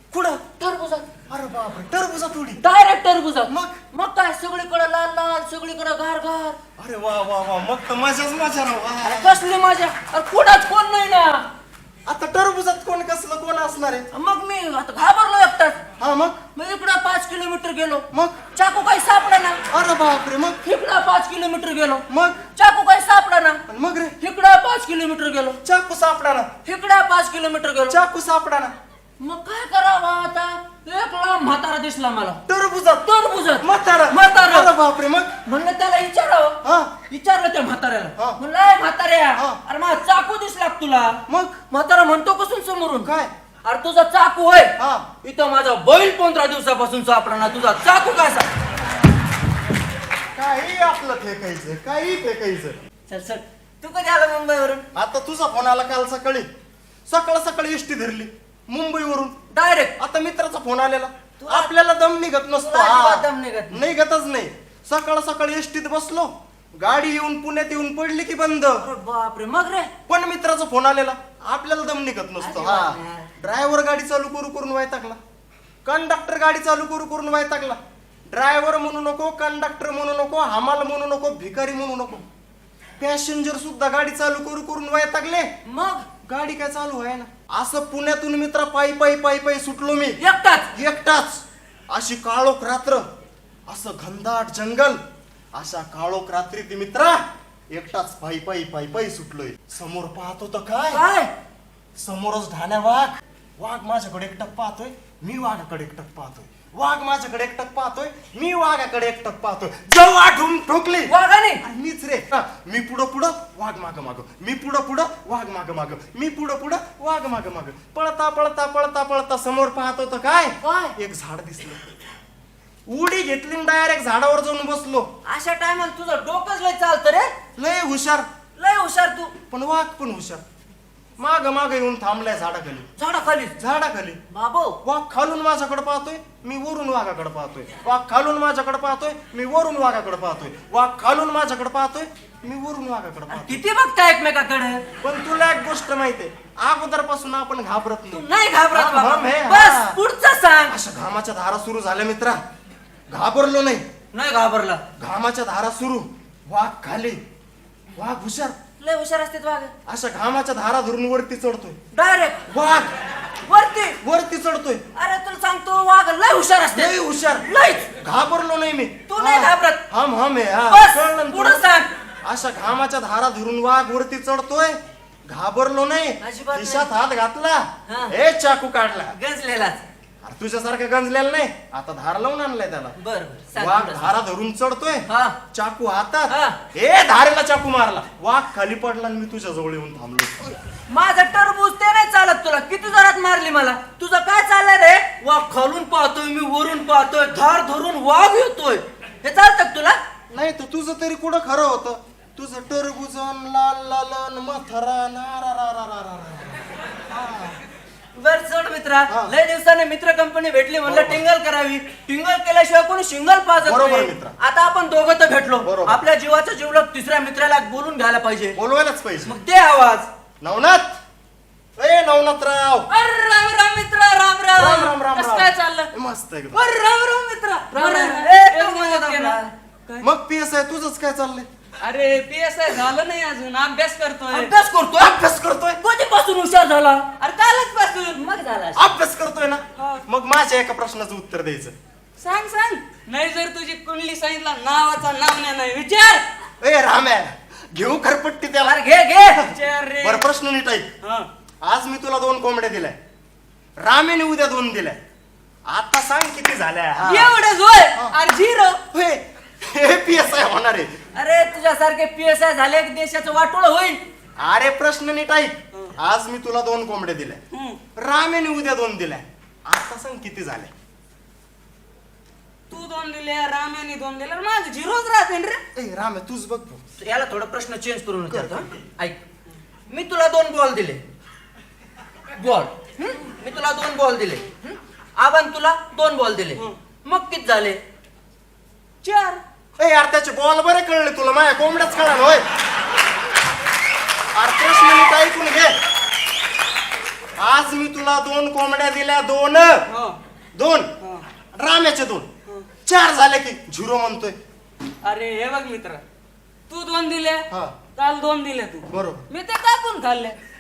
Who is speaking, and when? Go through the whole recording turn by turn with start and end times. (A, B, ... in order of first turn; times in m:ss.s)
0:00.1-0:00.4 A
0:00.6-0:01.1 B
0:01.3-0:02.6 A
0:02.6-0:06.6 B
0:03.5-0:03.8 A
0:06.8-0:09.4 A
0:09.0-0:11.4 B
0:12.1-0:14.1 A
0:14.1-0:15.8 B
0:16.0-0:16.4 A
0:16.6-0:19.6 B
0:18.1-0:18.4 A
0:19.7-0:20.6 A
0:20.6-0:23.6 B
0:22.1-0:22.4 A
0:23.7-0:24.2 A
0:24.2-0:25.6 B
0:25.6-0:26.5 A
0:26.6-0:28.0 B
0:27.9-0:28.7 A
0:29.2-0:32.4 B
0:32.5-0:33.1 A
0:33.0-0:34.7 B
0:33.6-0:35.3 A
0:35.5-0:41.2 B
0:36.6-0:36.9 A
0:41.3-0:41.6 A
0:41.7-0:43.1 B
0:43.0-0:43.3 A
0:43.6-0:48.5 B
0:44.8-0:45.1 A
0:50.4-0:52.8 A
0:53.1-0:54.9 B
0:54.9-0:56.5 A
0:57.1-0:59.4 A
0:59.5-0:59.9 B
1:00.0-1:08.9 A
1:01.4-1:01.7 B
1:02.6-1:03.8 B
1:08.8-1:09.9 B
1:10.1-1:15.2 A
1:12.4-1:13.3 B
1:15.8-1:22.3 A
1:23.0-1:25.5 A
1:25.6-1:26.1 B
1:26.3-1:30.2 A
1:30.2-1:30.7 B
1:30.7-1:33.1 A
1:33.7-1:35.0 A
1:35.5-1:41.0 A
1:40.9-1:41.3 B
1:42.0-2:01.9 A
1:51.1-1:51.6 B
2:00.6-2:00.9 B
2:02.9-2:05.1 A
2:05.2-2:07.3 B
2:07.6-2:08.3 A
2:08.6-2:09.3 B
2:09.5-2:10.4 A
2:11.2-2:12.9 A
2:13.0-2:13.6 B
2:13.6-2:14.2 A
2:14.3-2:14.8 B
2:14.8-2:23.6 A
2:23.3-2:24.8 B
2:25.0-2:30.0 A
2:28.1-2:30.8 B
2:30.7-2:32.4 A
2:33.1-2:33.8 A
2:34.1-2:34.8 B
2:35.0-2:37.2 A
2:38.0-2:38.6 A
2:38.8-2:39.7 B
2:39.9-2:41.8 A
2:41.9-2:42.4 B
2:42.5-2:42.9 A
2:43.5-2:44.0 B
2:44.0-2:44.8 A
2:45.0-2:47.9 B
2:46.7-2:47.5 A
2:48.0-2:51.7 A
2:49.1-2:49.8 B
2:50.7-2:51.9 B
2:52.2-2:59.2 A
2:56.2-2:56.9 B
2:57.9-2:58.2 B
2:59.1-2:59.8 B
3:00.2-3:03.0 A
3:03.0-3:04.1 B
3:03.6-3:10.5 A
3:05.1-3:05.4 B
3:06.3-3:06.6 B
3:10.9-3:20.0 B
3:20.3-3:27.6 A
3:28.2-3:38.6 B
3:29.1-3:29.3 A
3:30.8-3:31.2 A
3:33.6-3:34.4 A
3:35.6-3:36.0 A
3:38.6-3:39.4 A
3:39.2-3:40.1 B
3:40.4-3:41.0 A
3:41.8-3:42.9 A
3:42.9-3:45.9 C
3:44.6-3:46.6 A
3:46.5-3:50.1 C
3:47.7-3:49.5 B
3:50.0-3:51.5 A
3:51.8-3:54.5 C
3:54.3-3:55.2 B
3:55.0-3:55.8 A
3:55.8-3:57.1 B
3:57.2-3:58.2 C
3:58.2-3:58.9 B
3:58.8-4:01.8 A
3:59.8-4:00.0 C
4:02.2-4:06.2 C
4:06.6-4:08.8 A
4:08.6-4:09.5 B
4:09.5-4:10.2 C
4:10.0-4:10.9 A
4:11.0-4:11.3 C
4:11.6-4:13.0 A
4:13.8-4:15.0 A
4:15.7-4:17.3 A
4:17.0-4:18.8 C
4:18.9-4:20.9 A
4:21.2-4:24.0 B
4:24.4-4:27.4 A
4:27.5-4:27.8 C
4:28.0-4:30.7 A
4:32.7-4:35.6 C
4:35.8-4:36.8 A
4:37.0-4:39.2 B
4:38.3-4:38.8 A
4:39.9-4:41.0 B
4:42.4-4:47.8 B
4:49.0-4:49.4 C
4:49.8-4:52.5 A
4:54.4-4:55.8 A
4:57.4-4:59.8 A
4:59.9-5:00.2 C
5:00.6-5:00.9 A
5:01.5-5:02.3 A
5:02.8-5:04.4 A
5:05.0-5:06.0 C
5:06.7-5:10.4 C
5:08.9-5:09.2 A